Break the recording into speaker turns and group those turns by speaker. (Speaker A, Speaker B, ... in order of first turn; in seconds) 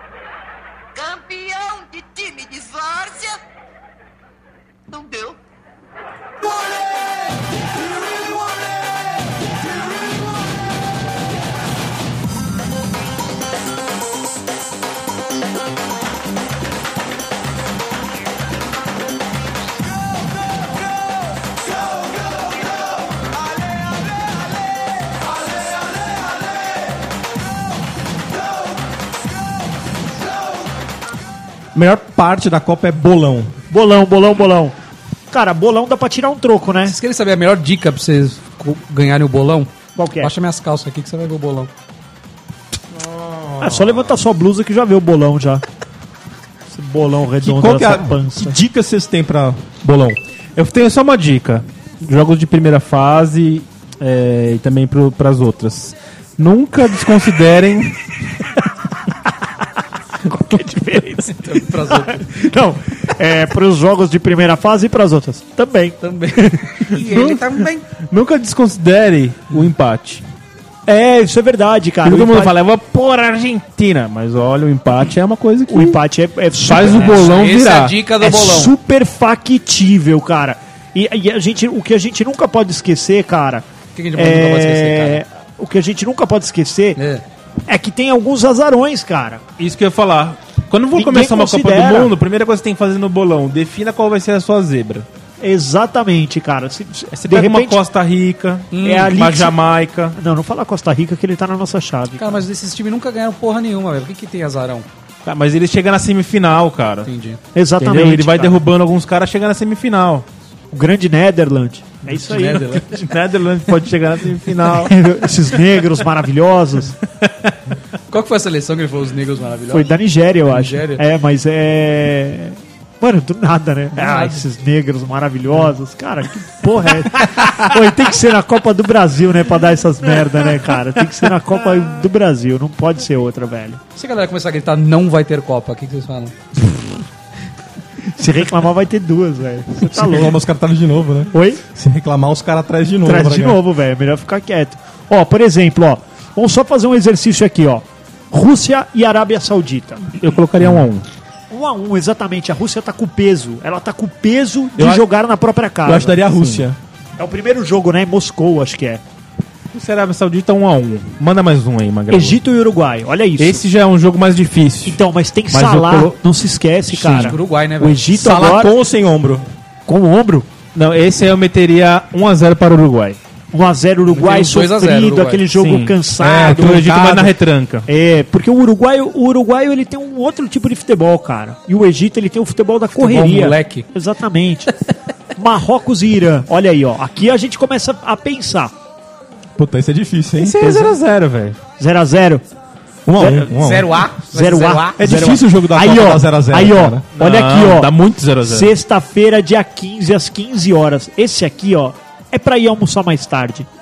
Speaker A: 0.9-3.4, 4.9-5.4
Speaker B: 31.7-33.5, 42.9-44.2, 47.4-50.2, 139.8-143.6, 150.6-150.9, 155.8-156.8, 168.1-169.4, 176.2-177.3, 189.6-190.6, 193.1-194.0, 194.9-197.1
Speaker C: 33.7-34.8, 35.3-37.0, 40.0-40.3, 43.6-45.6, 46.7-48.6, 60.2-67.0, 70.9-72.5, 75.7-77.3, 78.2-87.0, 87.7-89.4, 90.9-92.1, 95.4-97.8, 98.8-99.6, 100.1-102.4, 107.5-108.6, 110.7-112.8, 114.8-117.0, 119.7-133.8, 138.2-140.4, 141.3-141.6, 143.0-150.0, 151.5-156.2, 157.2-159.0, 162.1-163.6, 164.9-168.7, 169.9-170.5, 173.5-176.9, 177.9-184.7, 185.3-188.7, 190.6-191.0, 191.8-192.4, 193.2-193.5, 194.3-203.7
Speaker D: 36.9-41.7, 61.3-62.2, 66.0-67.9, 77.0-78.7, 83.9-85.2, 87.0-87.2, 98.7-99.2, 102.2-104.9, 107.0-107.4, 112.1-113.0, 118.1-119.9, 120.5-121.0, 123.9-124.4, 133.9-136.3, 167.2-168.0, 174.1-175.5, 182.9-183.8, 193.5-195.0
Speaker E: 50.5-58.0, 67.1-67.4, 68.0-70.2, 72.0-76.0, 76.6-77.9, 89.6-95.1, 97.1-100.2, 105.2-107.1, 107.8-110.2, 112.9-114.9, 117.2-117.5, 150.2-151.1, 154.8-155.0, 156.3-156.7, 159.7-162.4, 163.4-166.1, 166.9-167.3, 170.7-173.2, 175.5-177.9, 190.4-191.6, 197.2-198.7